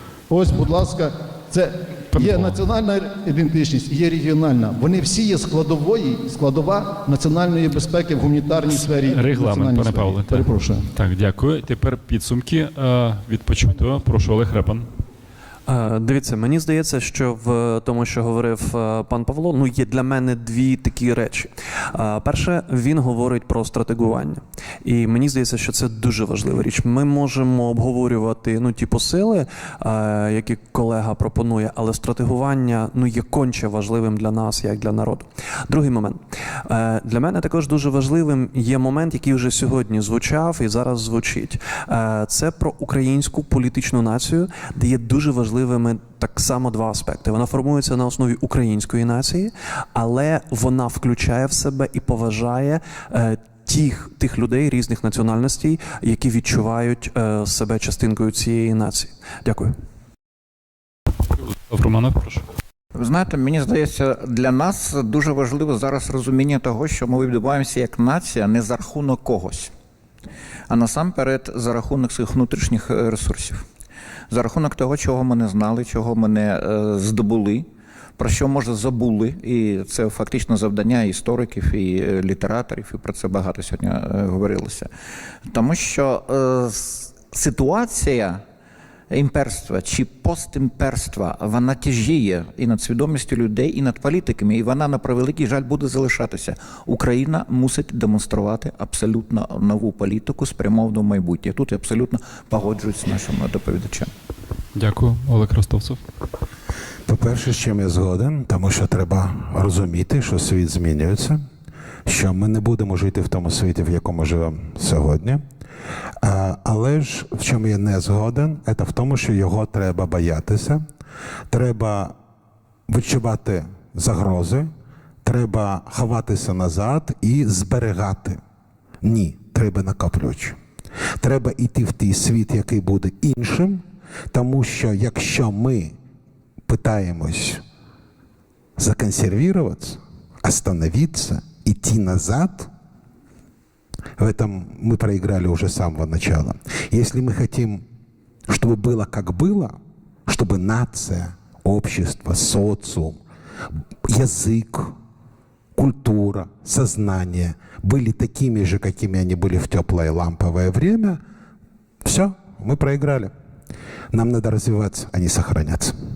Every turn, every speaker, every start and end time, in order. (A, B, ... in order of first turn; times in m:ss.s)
0:00.3-0:10.9 A
0:02.1-0:02.6 B
0:08.9-0:14.9 B
0:15.7-0:59.7 C
1:01.4-1:02.4 B
1:03.0-1:09.7 D
1:10.7-1:13.6 D
1:14.3-1:17.7 D
1:18.2-1:24.9 D
1:25.5-1:28.4 D
1:29.1-1:44.1 D
1:44.8-1:46.0 B
1:47.1-1:51.4 E
1:52.0-1:55.4 E
1:56.2-2:00.8 E
2:01.5-2:02.2 E
2:02.9-2:04.7 E
2:05.2-2:08.4 E
2:09.0-2:10.6 E
2:11.2-2:16.0 E
2:16.6-2:17.6 E
2:18.8-2:22.7 E
2:24.2-2:27.8 E
2:28.5-2:33.2 E
2:34.0-2:35.0 E
2:35.8-2:41.2 E
2:42.0-2:43.3 E
2:44.1-2:45.9 E